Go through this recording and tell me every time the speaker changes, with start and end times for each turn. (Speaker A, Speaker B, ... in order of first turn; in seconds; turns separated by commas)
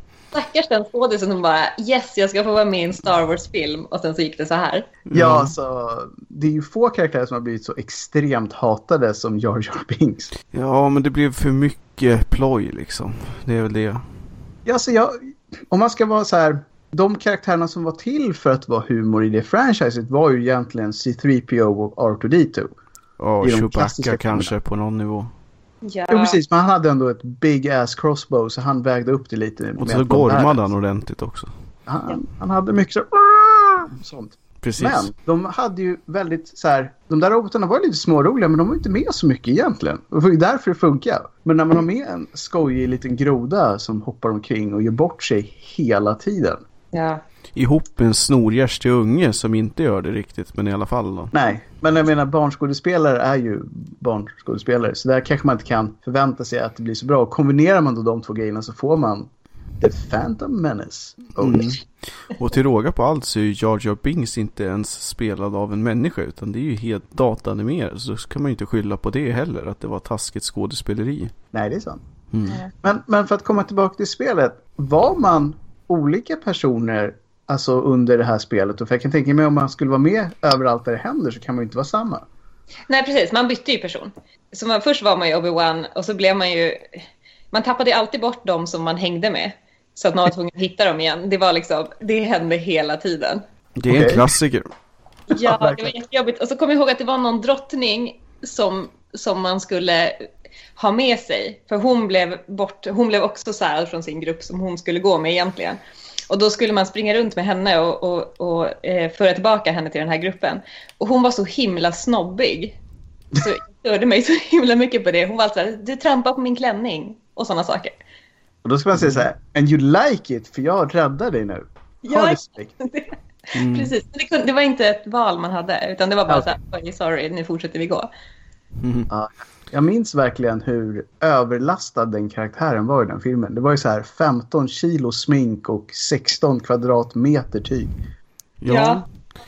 Speaker A: 0.3-4.9, Speaker B: 5.1-5.5, Speaker C: 5.1-10.3, Speaker B: 10.5-14.1, Speaker C: 14.6-22.7, Speaker B: 23.2-25.3, Speaker C: 23.4-24.5, Speaker A: 25.8-26.4, Speaker C: 26.1-30.6, Speaker B: 29.8-31.5, Speaker C: 31.9-46.6, Speaker B: 34.6-35.1, Speaker A: 46.9-47.2, Speaker B: 47.5-51.3, Speaker C: 51.3-59.3, Speaker C: 59.8-61.7, Speaker B: 61.4-71.3, Speaker C: 71.5-72.0, Speaker B: 72.3-72.6, Speaker C: 72.8-82.2, Speaker A: 82.9-87.0, Speaker A: 87.5-93.4, Speaker B: 93.8-94.7, Speaker C: 93.9-94.3, Speaker C: 95.3-95.9, Speaker A: 95.3-112.8, Speaker A: 113.3-117.9, Speaker C: 118.6-122.7, Speaker B: 119.0-119.2, Speaker A: 122.0-128.1, Speaker B: 123.5-123.9, Speaker B: 128.8-129.1, Speaker C: 129.1-137.9, Speaker B: 138.6-139.0, Speaker A: 138.7-139.0